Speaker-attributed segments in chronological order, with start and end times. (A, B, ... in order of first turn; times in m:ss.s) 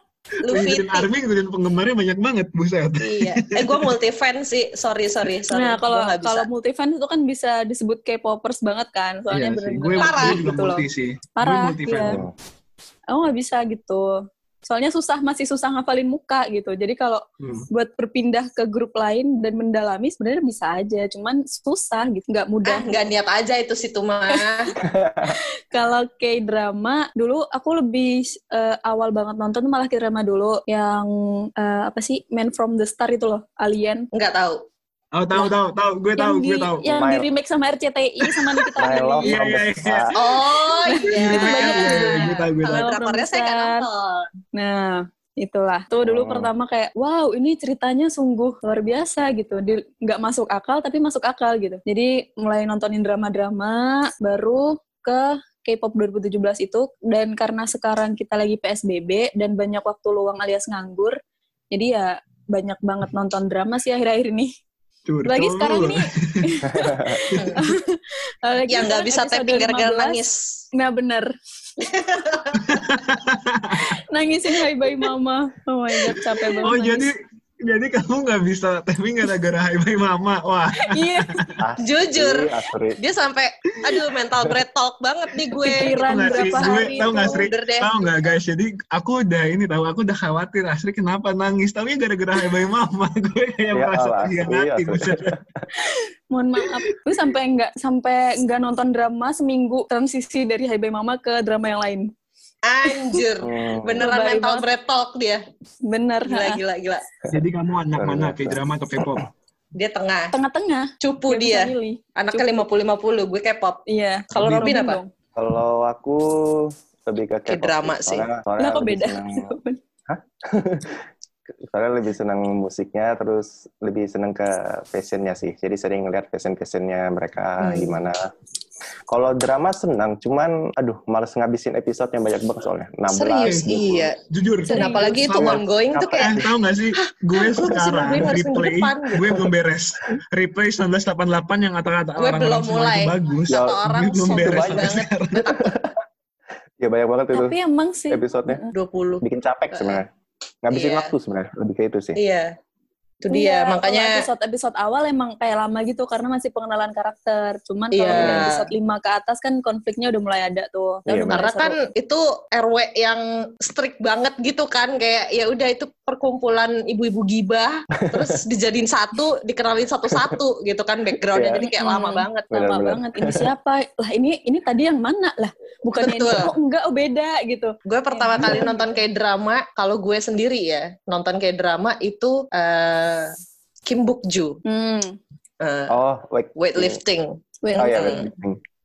0:00.4-0:01.1 A
0:00.4-0:03.9 B
0:03.0-0:06.5 A
0:05.5-0:10.8 C
0:09.3-0:12.2 B
0:10.0-0:10.5 A
0:11.4-0:12.2 C
0:12.0-0:12.3 D
0:13.1-0:23.0 C
0:17.4-0:17.7 B
0:22.6-0:24.8 A
0:24.8-0:25.4 D
0:25.2-0:34.1 C
0:34.1-0:34.6 A
0:35.1-0:36.9 B
0:36.2-0:39.4 C
0:36.8-0:37.3 D
0:38.8-0:40.2 D
0:39.2-0:40.1 B
0:40.1-0:44.3 A
0:40.8-0:43.9 C
0:41.1-0:42.9 B
0:44.5-1:01.2 C
0:46.0-0:46.5 D
1:01.7-1:04.5 C
1:05.1-1:06.7 B
1:05.2-1:10.2 C
1:06.7-1:07.2 D
1:07.3-1:07.6 B
1:07.3-1:07.6 A
1:08.7-1:10.6 A
1:10.7-1:11.3 C
1:11.8-1:12.8 A
1:12.6-1:13.9 B
1:13.8-1:17.1 C
1:16.6-1:21.5 B
1:20.8-1:21.4 C
1:21.6-1:23.0 D
1:21.8-1:28.0 A
1:25.6-1:27.4 C
1:25.6-1:35.4 B
1:33.7-1:35.6 D
1:35.8-1:42.1 C
1:42.6-1:45.4 A
1:42.9-1:43.2 C
1:43.4-1:44.0 D
1:44.0-1:44.6 C
1:45.9-1:46.6 C
1:46.3-1:47.1 A
1:47.3-1:49.3 B
1:47.9-1:49.2 D
1:49.8-1:50.4 A
1:50.3-1:52.6 C
1:51.0-1:55.0 A
1:53.9-1:55.1 C
1:54.4-1:54.8 B
1:55.4-1:59.5 D
1:57.5-1:58.3 A
1:58.6-1:59.8 C
2:00.1-2:01.0 D
2:01.6-2:08.3 D
2:07.6-2:08.0 A
2:09.1-2:14.1 D
2:13.1-2:16.5 A
2:13.4-2:25.5 B
2:14.7-2:15.2 C
2:15.4-2:16.4 D
2:17.0-2:19.4 A
2:22.2-2:25.7 A
2:23.5-2:26.0 D
2:26.8-2:27.6 D
2:27.3-2:28.7 C
2:28.1-2:28.6 D
2:28.7-2:30.0 A
2:29.2-2:30.1 D
2:30.6-2:32.2 D
2:30.7-2:31.1 A
2:32.2-2:32.6 A
2:33.2-2:34.2 A
2:33.3-2:41.8 C
2:37.9-2:38.7 A
2:38.1-2:38.5 D
2:41.1-2:41.5 D
2:41.3-2:52.5 A
2:48.0-2:48.4 D
2:50.1-2:50.4 D
2:51.3-2:51.7 D
2:51.6-2:58.7 C
2:52.5-2:53.5 D
2:56.0-2:56.5 A
2:57.9-3:03.4 A
2:58.4-2:58.6 D
3:03.9-3:04.6 A
3:04.6-3:05.2 C
3:05.6-3:05.9 A
3:05.9-3:07.0 D
3:06.6-3:08.3 A
3:07.6-3:08.3 C
3:07.8-3:08.6 D